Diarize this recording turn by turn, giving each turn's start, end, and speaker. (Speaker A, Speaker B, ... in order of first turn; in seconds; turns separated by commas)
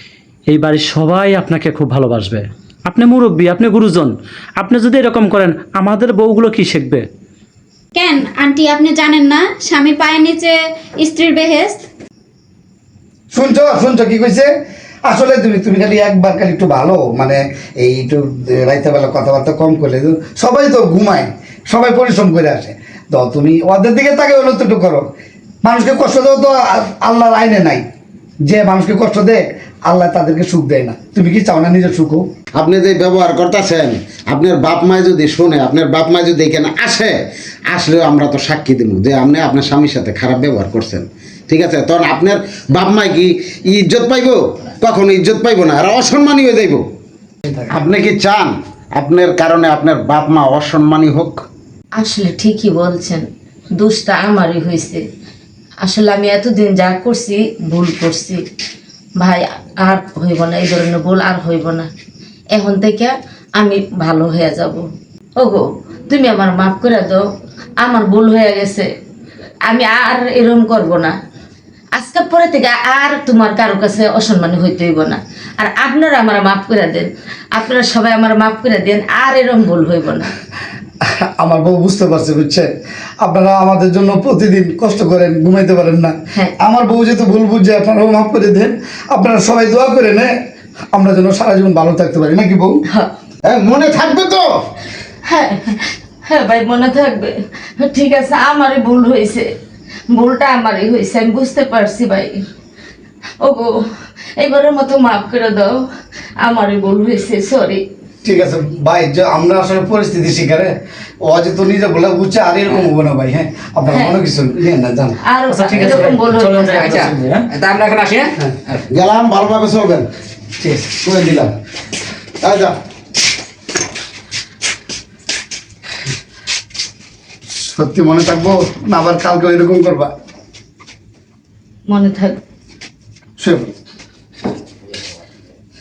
Speaker A: 0.5-7.0, Speaker B: 7.9-11.8, Speaker C: 13.3-14.5, Speaker C: 15.1-25.0, Speaker C: 25.6-27.8, Speaker C: 28.4-32.2, Speaker D: 32.5-37.1, Speaker D: 37.7-46.8, Speaker D: 47.6-51.4, Speaker E: 52.0-53.2, Speaker E: 53.8-55.0, Speaker E: 55.8-58.4, Speaker E: 59.2-61.9, Speaker E: 62.5-64.8, Speaker E: 65.4-67.2, Speaker E: 67.8-68.9, Speaker E: 69.6-71.1, Speaker E: 71.9-80.3, Speaker C: 81.0-82.7, Speaker C: 83.2-90.3, Speaker C: 90.9-92.8, Speaker D: 93.5-94.4, Speaker E: 95.3-99.5, Speaker E: 100.1-102.4, Speaker E: 103.4-103.8, Speaker E: 104.4-105.8, Speaker E: 106.4-107.8, Speaker C: 108.2-115.2, Speaker E: 113.9-114.2, Speaker E: 115.2-117.0, Speaker A: 115.5-117.5, Speaker F: 116.7-118.8, Speaker D: 118.9-120.1, Speaker D: 121.0-121.5, Speaker D: 122.4-122.7, Speaker C: 127.6-130.1, Speaker E: 131.9-132.4, Speaker C: 133.4-133.7